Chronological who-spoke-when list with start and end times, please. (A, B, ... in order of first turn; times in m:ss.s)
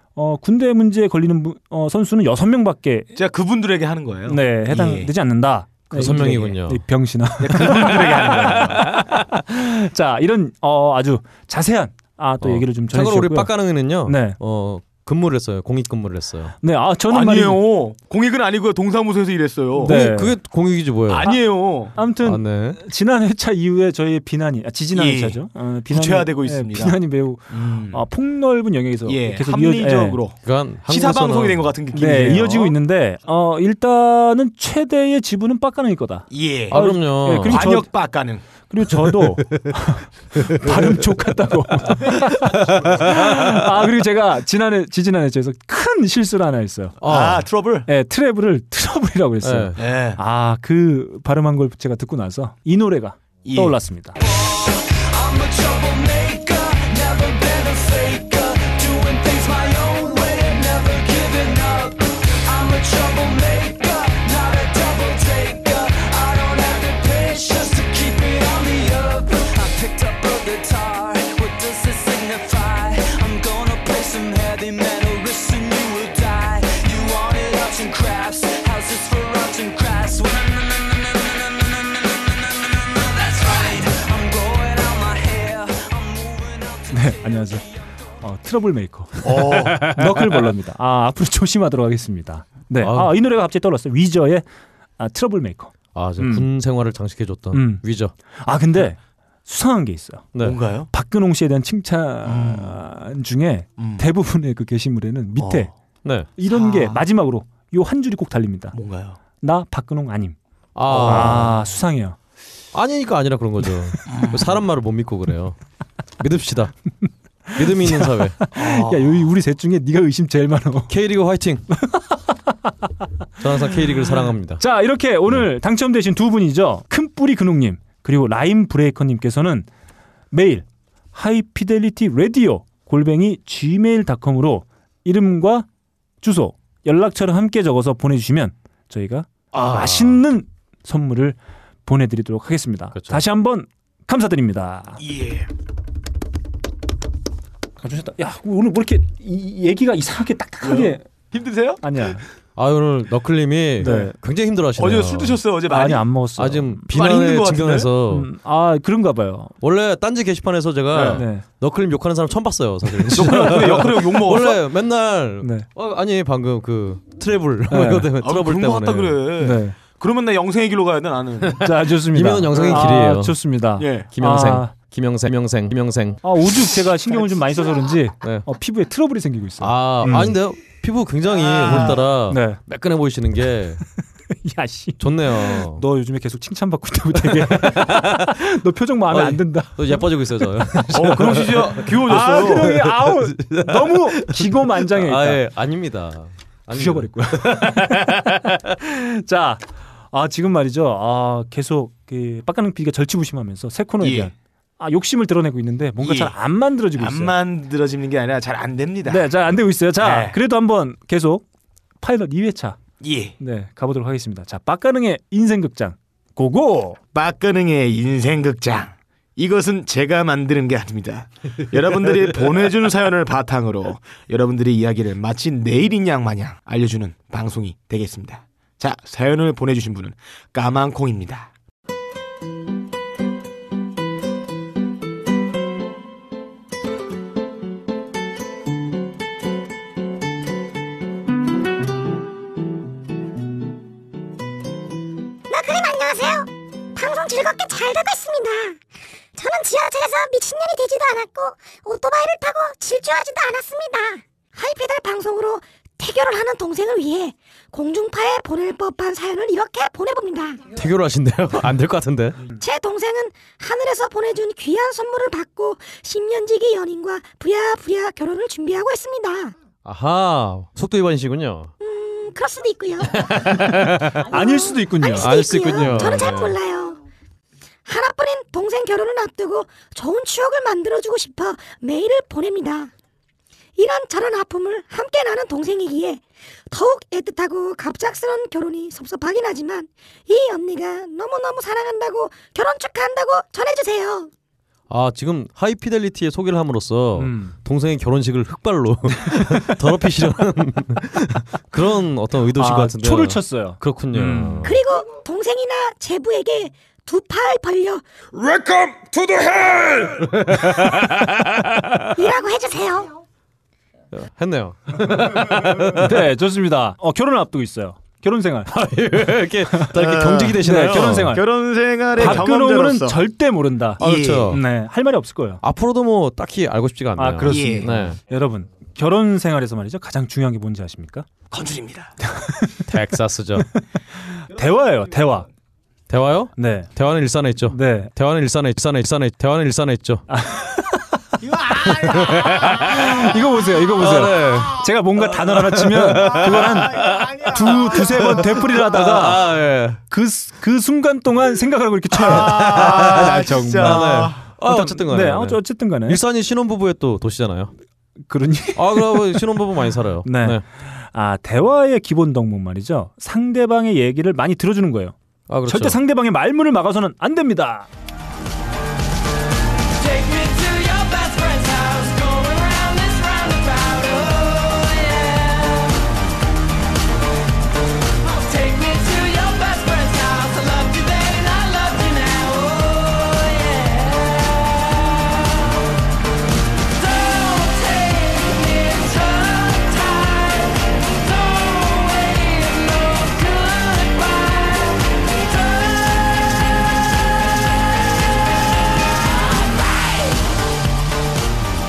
0:00.1-0:03.1 A
0:03.1-0:05.1 B
0:04.3-0:13.5 A
0:05.9-0:06.8 C
0:06.0-0:06.6 B
0:07.4-0:08.8 B
0:12.4-0:16.6 C
0:14.0-0:14.4 A
0:16.6-0:17.6 A
0:17.1-0:20.0 B
0:19.8-0:20.4 A
0:19.8-0:21.4 C
0:21.1-0:22.0 B
0:21.9-0:30.2 A
0:22.2-0:22.8 C
0:24.9-0:27.0 B
0:27.5-0:28.0 B
0:29.1-0:32.8 B
0:30.4-0:31.7 C
0:31.9-0:38.1 A
0:36.3-0:36.9 B
0:36.7-0:37.7 C
0:37.4-0:38.4 B
0:38.6-0:47.0 A
0:40.6-0:40.8 C
0:42.1-0:43.6 C
0:47.0-0:47.5 C
0:47.0-0:47.9 B
0:47.9-0:54.2 A
0:49.4-0:49.8 C
0:49.8-0:50.2 B
0:53.4-0:53.8 B
0:54.2-1:27.9 D
1:26.9-1:27.6 A
1:28.2-1:34.4 A
1:29.2-1:29.9 B
1:32.8-1:33.1 C
1:35.0-1:36.5 A
1:35.9-1:38.1 C
1:37.5-1:37.8 A
1:38.4-1:40.3 A
1:40.3-1:40.6 C
1:40.4-1:40.9 B
1:40.9-1:45.7 A
1:42.2-1:42.8 B
1:43.8-1:44.1 B
1:45.4-1:45.7 B
1:46.0-1:46.3 C
1:46.4-1:48.8 A
1:46.5-1:47.0 B
1:48.7-1:49.2 B
1:49.4-1:50.4 A
1:50.7-1:51.6 C
1:50.9-1:52.2 A
1:50.9-1:51.4 B
1:52.7-1:55.6 C
1:54.1-1:54.6 B
1:56.2-1:56.7 C
1:57.5-2:00.9 A
1:57.6-1:58.4 C
1:58.6-1:59.2 B
2:00.9-2:01.6 C
2:01.8-2:02.1 A
2:03.4-2:04.6 C
2:04.6-2:09.7 A
2:10.3-2:15.6 A
2:16.2-2:25.0 A
2:19.5-2:20.2 C
2:22.9-2:23.2 C
2:25.0-2:25.5 B
2:27.8-2:31.0 A
2:30.6-2:31.8 B
2:31.8-2:32.2 A
2:32.6-2:35.4 C
2:33.8-2:34.1 A
2:33.8-2:34.1 B
2:34.8-2:36.1 B
2:35.7-2:36.9 A
2:36.4-2:38.3 C
2:36.9-2:37.9 B
2:38.1-2:39.5 A
2:39.6-2:49.2 C
2:40.9-2:41.2 B
2:41.1-2:41.4 A
2:43.1-2:44.6 B
2:45.4-2:45.7 A
2:47.7-2:48.1 A
2:48.2-2:51.7 B
2:49.4-2:49.8 A
2:51.6-2:54.7 A
2:52.1-2:53.4 C
2:52.5-2:53.0 B
2:53.8-2:54.1 B
2:54.1-2:56.2 C
2:56.2-3:00.4 A
2:57.1-2:57.7 B
2:58.2-2:58.5 C
2:59.6-3:03.8 C
3:01.4-3:02.0 B
3:01.7-3:02.6 A
3:04.4-3:11.4 A
3:05.0-3:05.8 C
3:07.2-3:08.4 C
3:09.1-3:18.6 C
3:10.9-3:12.8 B
3:12.0-3:15.4 A
3:16.7-3:27.4 A
3:24.0-3:24.3 B
3:26.0-3:26.4 B
3:26.9-3:29.3 B
3:29.1-3:31.4 A
3:30.0-3:30.4 B
3:32.0-3:32.8 A
3:33.0-3:33.4 B
3:33.4-3:37.0 A
3:37.1-3:51.5 B
4:05.5-4:08.8 E
4:09.4-4:20.6 E
4:20.7-4:22.4 C
4:22.6-4:29.6 E
4:29.8-4:31.7 C
4:31.8-4:33.5 E
4:33.3-4:34.2 C
4:34.2-4:35.4 A
4:34.3-4:37.0 E
4:35.2-4:36.6 C
4:37.9-4:42.9 E
4:43.8-4:54.3 E
4:54.9-5:04.8 C
4:57.2-4:57.6 A
4:59.2-4:59.8 A
5:02.5-5:04.7 A
5:04.6-5:08.0 E
5:08.4-5:12.0 C
5:12.1-5:13.2 E
5:14.1-5:16.3 C
5:15.9-5:18.7 A
5:18.7-5:21.4 C
5:19.9-5:23.2 B
5:20.6-5:21.4 A
5:22.1-5:25.6 A
5:22.2-5:22.4 C
5:24.0-5:24.6 B
5:24.0-5:24.6 C
5:25.6-5:28.2 C
5:27.2-5:31.3 A
5:27.5-5:28.0 B
5:31.5-5:32.2 B
5:32.3-5:32.8 A
5:32.9-5:33.7 C
5:34.3-5:35.5 A
5:36.1-5:40.2 C
5:36.6-5:36.9 A
5:37.7-5:38.1 A
5:40.3-5:41.0 A
5:41.4-5:42.8 B
5:41.8-5:43.3 C
5:42.7-5:49.4 A
5:43.9-5:50.0 C
5:46.4-5:48.6 B
5:50.1-5:56.2 A
5:52.1-5:54.4 B
5:52.3-5:57.7 C
5:58.3-5:59.4 A
5:58.8-6:00.6 C
6:00.2-6:07.9 A
6:05.5-6:06.0 C
6:10.0-6:16.0 D
6:18.2-6:25.6 D
6:26.9-6:36.8 D